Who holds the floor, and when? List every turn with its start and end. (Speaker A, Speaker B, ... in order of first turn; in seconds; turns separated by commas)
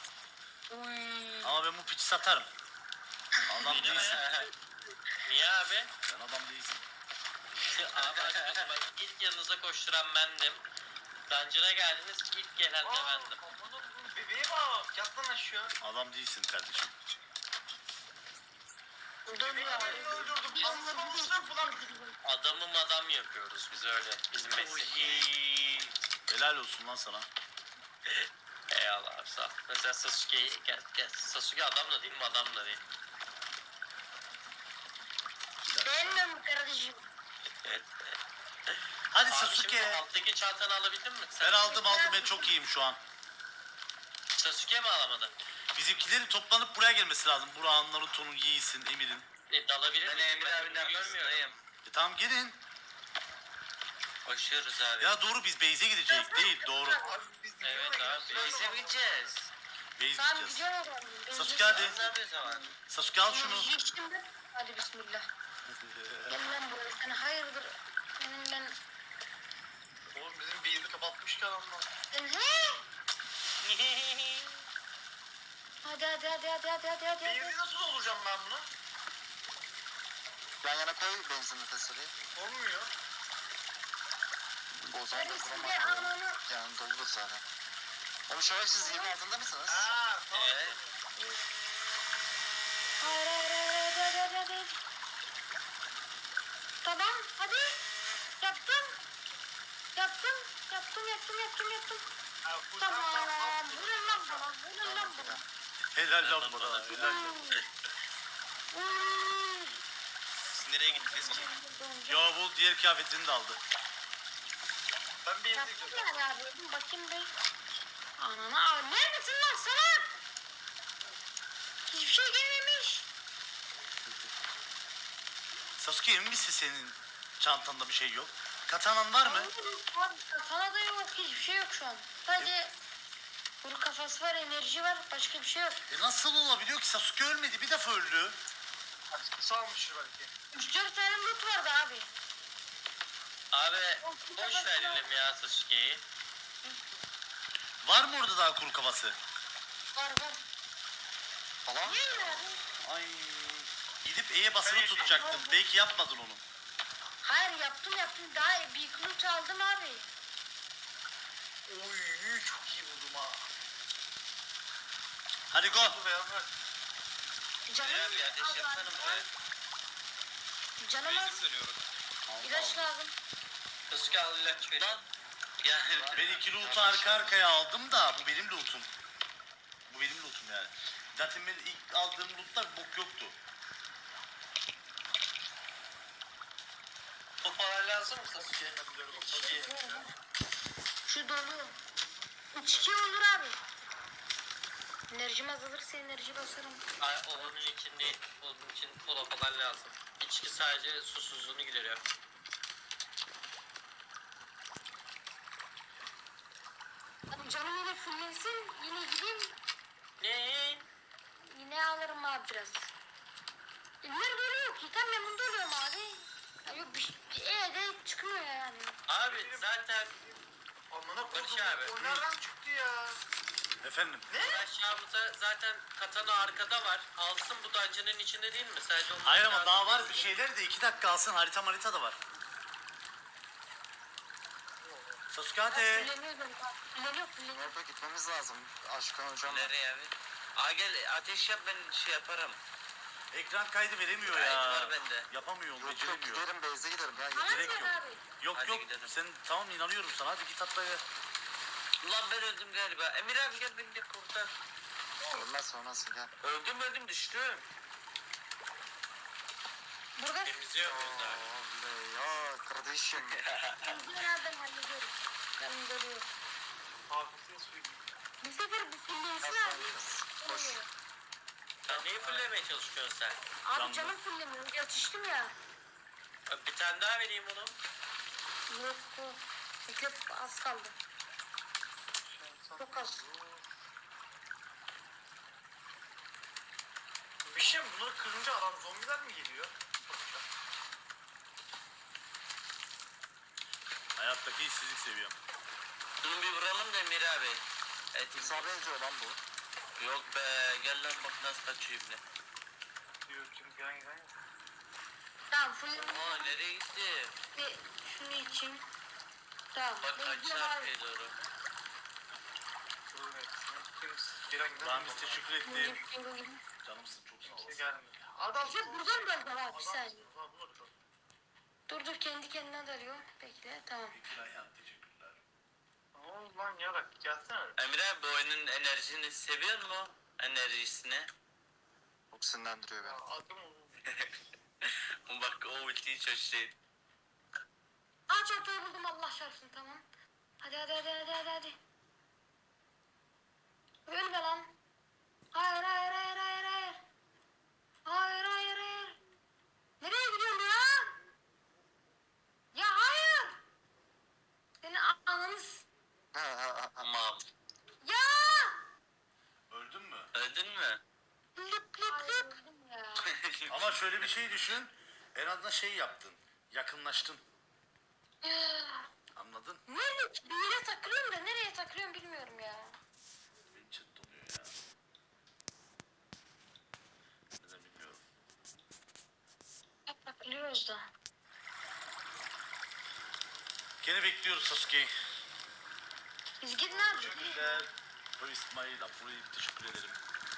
Speaker A: 0.7-1.6, Speaker B: 1.4-2.5, Speaker B: 3.5-4.2, Speaker C: 3.6-4.5, Speaker D: 3.7-4.5, Speaker D: 5.2-5.9, Speaker B: 6.0-6.8, Speaker D: 7.7-10.6, Speaker C: 7.8-8.7, Speaker D: 11.3-13.3, Speaker E: 12.8-15.7, Speaker B: 15.8-16.9, Speaker A: 19.3-22.1, Speaker E: 19.4-22.1, Speaker F: 19.6-20.0, Speaker D: 22.2-25.3, Speaker C: 24.4-25.9, Speaker B: 26.3-27.2, Speaker D: 28.7-32.8, Speaker B: 35.7-36.2, Speaker A: 35.8-37.0, Speaker B: 39.1-40.0, Speaker D: 39.3-41.6, Speaker B: 41.4-43.0, Speaker A: 41.6-42.5, Speaker D: 44.3-45.3, Speaker B: 45.7-49.2, Speaker D: 49.5-51.5, Speaker C: 50.0-51.6, Speaker B: 51.8-52.6, Speaker C: 54.2-55.1, Speaker B: 55.0-57.1, Speaker A: 56.1-57.1, Speaker E: 57.0-59.3, Speaker D: 57.6-58.7, Speaker C: 58.3-59.4, Speaker B: 60.0-60.6, Speaker A: 60.1-62.7, Speaker B: 61.3-62.0, Speaker C: 61.6-62.7, Speaker B: 62.9-63.7, Speaker A: 63.3-65.3, Speaker B: 65.7-66.4, Speaker A: 66.3-68.8, Speaker E: 70.1-71.9, Speaker A: 72.1-72.8, Speaker D: 73.7-74.2, Speaker A: 75.8-77.6, Speaker E: 77.2-78.7, Speaker G: 80.6-82.1, Speaker E: 82.3-82.9, Speaker G: 84.8-87.4, Speaker A: 85.1-86.4, Speaker G: 88.3-89.9, Speaker A: 88.8-89.2, Speaker E: 89.7-91.0, Speaker C: 90.3-90.8, Speaker A: 93.0-94.8, Speaker A: 96.8-97.8, Speaker A: 98.4-99.0, Speaker A: 99.9-102.0, Speaker E: 102.4-104.5, Speaker A: 102.8-105.4, Speaker G: 104.8-105.4, Speaker B: 105.9-107.5, Speaker D: 106.2-107.2, Speaker A: 106.9-107.6, Speaker A: 108.7-109.8, Speaker F: 110.5-111.5, Speaker A: 110.9-112.3, Speaker B: 112.1-113.6, Speaker E: 115.2-116.3, Speaker A: 115.5-117.3, Speaker A: 118.2-120.1, Speaker A: 121.9-123.0, Speaker B: 125.8-129.5, Speaker A: 129.2-132.7, Speaker A: 133.6-135.8, Speaker B: 135.9-138.4, Speaker E: 139.1-140.3, Speaker A: 140.5-142.1, Speaker D: 143.5-146.0, Speaker A: 144.0-145.0, Speaker B: 147.8-149.2, Speaker A: 149.9-150.4, Speaker G: 151.6-152.0, Speaker A: 151.8-152.6, Speaker B: 152.0-156.4, Speaker E: 154.6-155.4, Speaker A: 155.1-155.6, Speaker A: 157.2-160.1, Speaker E: 161.7-163.4, Speaker B: 165.5-166.0, Speaker E: 165.6-166.5, Speaker A: 167.7-169.3, Speaker C: 167.8-169.3, Speaker A: 170.8-171.4, Speaker F: 171.0-171.8, Speaker B: 172.3-172.9, Speaker A: 172.4-173.1, Speaker D: 173.9-175.0, Speaker C: 174.8-175.1, Speaker C: 175.6-177.4, Speaker B: 176.1-178.9, Speaker B: 179.9-183.3, Speaker D: 187.4-189.6, Speaker E: 188.4-190.1, Speaker A: 189.3-190.1, Speaker A: 191.1-191.7, Speaker A: 192.5-193.6, Speaker A: 195.1-196.8, Speaker D: 197.0-202.0, Speaker A: 207.3-209.6, Speaker D: 210.2-210.8, Speaker A: 211.5-212.9, Speaker A: 214.0-218.9, Speaker D: 219.1-220.1, Speaker E: 219.2-220.4, Speaker E: 220.9-223.2, Speaker D: 221.3-221.9, Speaker C: 221.4-221.9, Speaker B: 221.9-222.2, Speaker B: 223.8-224.3, Speaker E: 224.3-224.6, Speaker D: 224.3-230.3, Speaker B: 229.2-232.2, Speaker E: 234.8-235.2, Speaker B: 235.3-236.1, Speaker A: 235.7-237.7, Speaker G: 237.5-239.7, Speaker C: 239.4-242.6, Speaker B: 243.3-246.4, Speaker C: 244.2-245.3, Speaker G: 245.8-247.9, Speaker A: 247.3-248.2, Speaker B: 247.5-251.0, Speaker C: 248.5-249.2, Speaker C: 252.0-254.5, Speaker G: 255.3-256.3, Speaker C: 256.4-257.6, Speaker A: 260.2-260.6, Speaker D: 260.4-261.4, Speaker G: 260.8-263.4, Speaker C: 263.1-263.9, Speaker A: 263.8-266.3, Speaker E: 267.1-268.1, Speaker A: 268.4-270.9, Speaker G: 269.4-270.8, Speaker C: 271.8-272.5, Speaker D: 271.9-273.4, Speaker A: 273.6-275.5, Speaker B: 273.7-274.1, Speaker D: 276.5-277.7, Speaker A: 278.7-280.9, Speaker E: 282.2-283.6, Speaker A: 282.8-283.2, Speaker E: 287.4-290.4, Speaker B: 294.1-295.4, Speaker C: 296.2-297.6, Speaker C: 298.1-298.9, Speaker G: 298.3-299.4, Speaker C: 300.0-302.2, Speaker E: 303.3-304.3, Speaker A: 305.5-306.5, Speaker C: 305.9-307.3, Speaker A: 307.5-308.8, Speaker A: 309.7-310.9, Speaker C: 310.0-311.3, Speaker E: 313.1-315.5, Speaker B: 314.8-316.0, Speaker A: 315.6-316.6, Speaker B: 316.8-318.0, Speaker E: 317.4-320.9, Speaker A: 318.6-320.2, Speaker A: 321.9-324.2, Speaker B: 324.1-325.4, Speaker E: 326.1-327.8, Speaker C: 327.8-331.3, Speaker G: 332.3-333.2, Speaker E: 333.0-334.1, Speaker C: 334.1-336.8, Speaker A: 338.3-340.0, Speaker A: 340.6-341.8, Speaker A: 344.1-344.7, Speaker A: 345.5-347.0, Speaker A: 348.0-349.2, Speaker A: 350.0-351.1, Speaker A: 352.7-353.6, Speaker A: 354.8-355.9, Speaker G: 356.3-357.0, Speaker C: 357.0-357.4, Speaker A: 358.0-358.8, Speaker B: 359.7-360.3, Speaker C: 360.3-361.0, Speaker A: 361.6-363.3, Speaker C: 363.3-364.3, Speaker B: 363.7-367.4, Speaker A: 368.4-369.1, Speaker B: 369.3-369.8, Speaker A: 369.9-372.9, Speaker B: 373.7-374.7, Speaker B: 377.5-378.2, Speaker A: 380.1-381.1, Speaker B: 384.0-385.1, Speaker A: 386.6-387.6, Speaker B: 386.9-390.2, Speaker E: 386.9-387.8